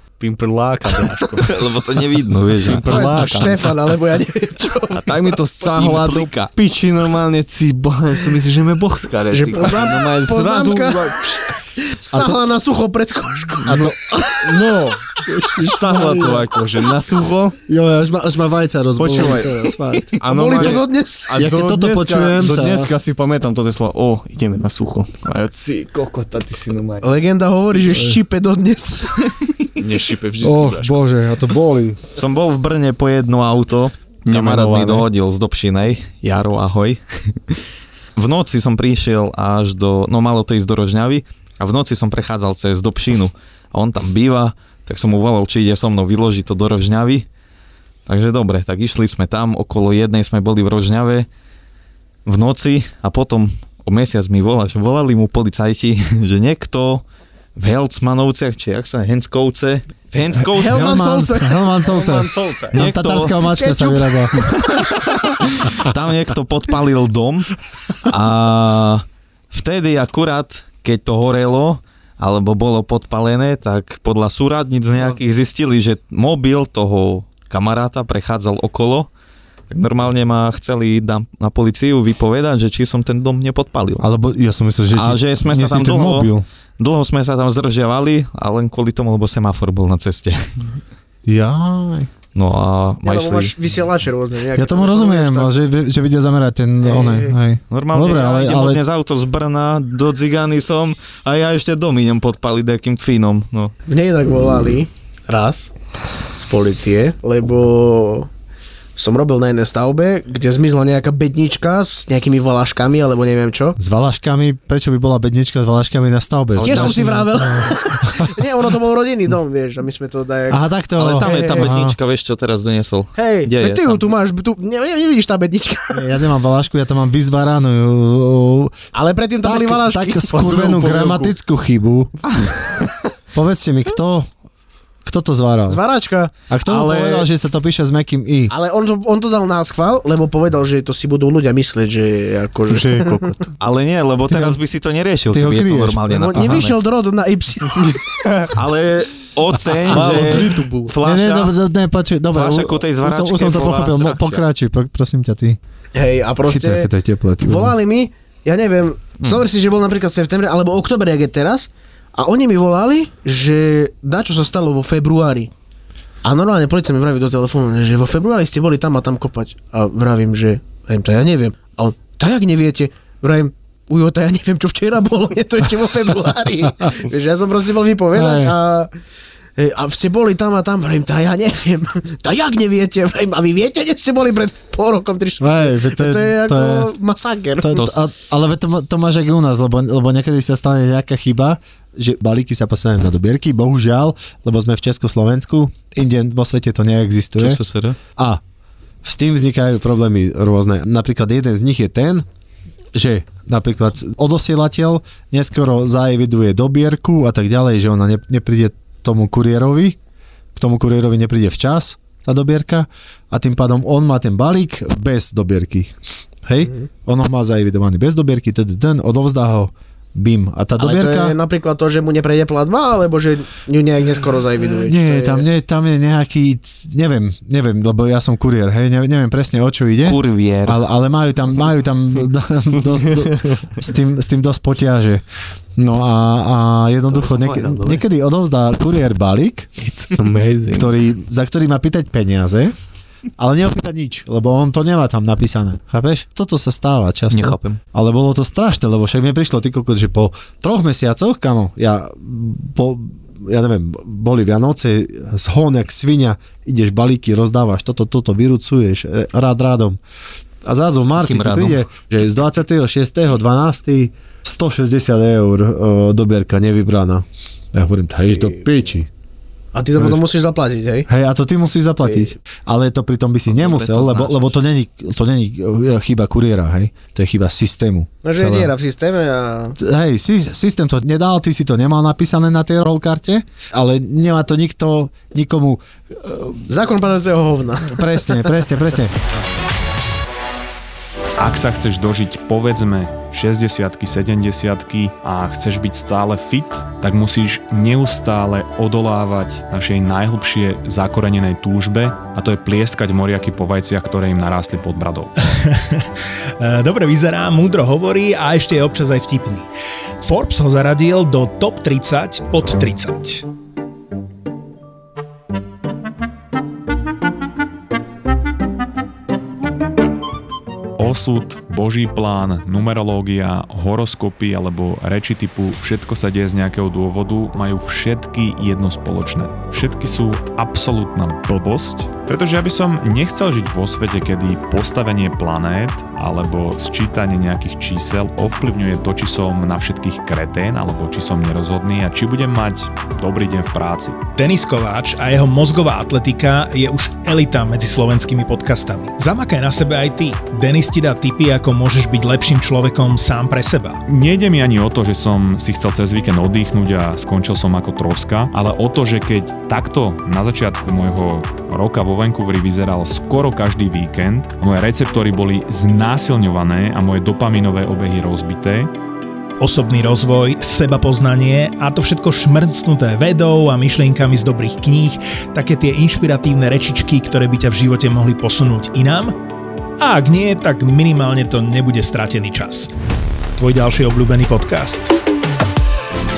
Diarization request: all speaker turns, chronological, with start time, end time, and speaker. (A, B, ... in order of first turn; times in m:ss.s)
0:00.2-0:01.6 A
0:01.4-0:02.9 B
0:02.6-0:03.8 A
0:02.9-0:05.1 C
0:05.0-0:11.2 A
0:05.6-0:06.5 B
0:09.3-0:14.6 C
0:12.1-0:12.4 D
0:13.6-0:16.6 D
0:15.5-0:17.6 A
0:17.7-0:20.8 D
0:19.0-0:19.5 A
0:19.1-0:21.4 C
0:20.2-0:27.1 A
0:21.4-0:22.9 D
0:27.0-0:29.3 C
0:27.9-0:28.2 D
0:29.7-0:31.0 A
0:30.4-0:32.0 D
0:32.2-0:37.6 B
0:34.3-0:35.1 A
0:38.2-0:47.3 B
0:48.1-0:51.3 B
0:52.3-0:57.0 B
0:57.6-1:01.0 B
1:00.5-1:01.7 C
1:00.6-1:04.5 D
1:01.8-1:02.8 A
1:02.7-1:03.4 B
1:03.4-1:04.3 C
1:04.4-1:19.1 B
1:19.7-1:24.1 B
1:24.0-1:26.5 D
1:24.9-1:30.5 B
1:31.3-1:32.1 D
1:32.3-1:33.5 B
1:33.0-1:35.5 C
1:34.6-1:38.8 D
1:36.8-1:37.4 C
1:37.7-1:43.7 B
1:43.9-1:45.7 C
1:46.4-1:48.3 C
1:49.0-1:53.8 C
1:53.8-1:58.4 D
1:56.6-1:57.1 B
1:56.6-2:01.7 C
2:00.5-2:02.0 D
2:01.0-2:04.1 B
2:03.2-2:06.1 C
2:05.9-2:08.8 D
2:08.9-2:11.3 C
2:09.4-2:12.2 D
2:13.3-2:14.3 D
2:15.0-2:15.8 D
2:15.7-2:16.3 C
2:16.5-2:18.5 D
2:16.7-2:17.3 B
2:18.5-2:23.3 C
2:22.7-2:23.4 A
2:23.6-2:26.8 B
2:24.3-2:24.6 D
2:25.3-2:26.6 D
2:26.1-2:28.2 C
2:28.5-2:31.6 B
2:29.9-2:30.9 A
2:30.0-2:30.3 D
2:31.0-2:35.6 D
2:32.3-2:34.4 B
2:36.0-2:36.9 C
2:36.4-2:37.8 D
2:37.4-2:45.5 C
2:46.2-2:58.9 C
2:58.1-2:58.6 D
2:59.6-3:08.0 C
3:05.4-3:06.9 D
3:07.6-3:17.6 D
3:17.4-3:18.0 B
3:18.2-3:18.4 D
3:19.0-3:22.2 D
3:22.9-3:30.0 D
3:30.6-3:41.4 D
3:40.8-3:45.5 C
3:44.8-3:55.2 D
3:50.0-3:50.8 B
3:55.8-3:59.7 D
3:57.4-3:57.9 B
4:00.1-4:00.9 A
4:00.7-4:02.8 D
4:03.4-4:20.0 D
4:07.3-4:07.8 B
4:20.6-4:29.1 D
4:21.2-4:21.9 B
4:29.7-4:31.1 C
4:30.0-4:30.2 D
4:31.1-4:38.7 D
4:32.0-4:32.3 C
4:33.5-4:34.5 B
4:38.2-4:39.8 C
4:39.8-4:46.6 D
4:46.7-4:48.5 C
4:47.9-4:49.1 D
4:51.4-5:05.3 E
5:05.5-5:09.7 F
5:10.2-5:13.4 F
5:21.0-5:44.2 E
5:44.3-5:54.0 F
5:54.1-6:08.9 E
6:09.6-6:19.4 F
6:20.0-6:22.9 F
6:23.6-6:25.1 F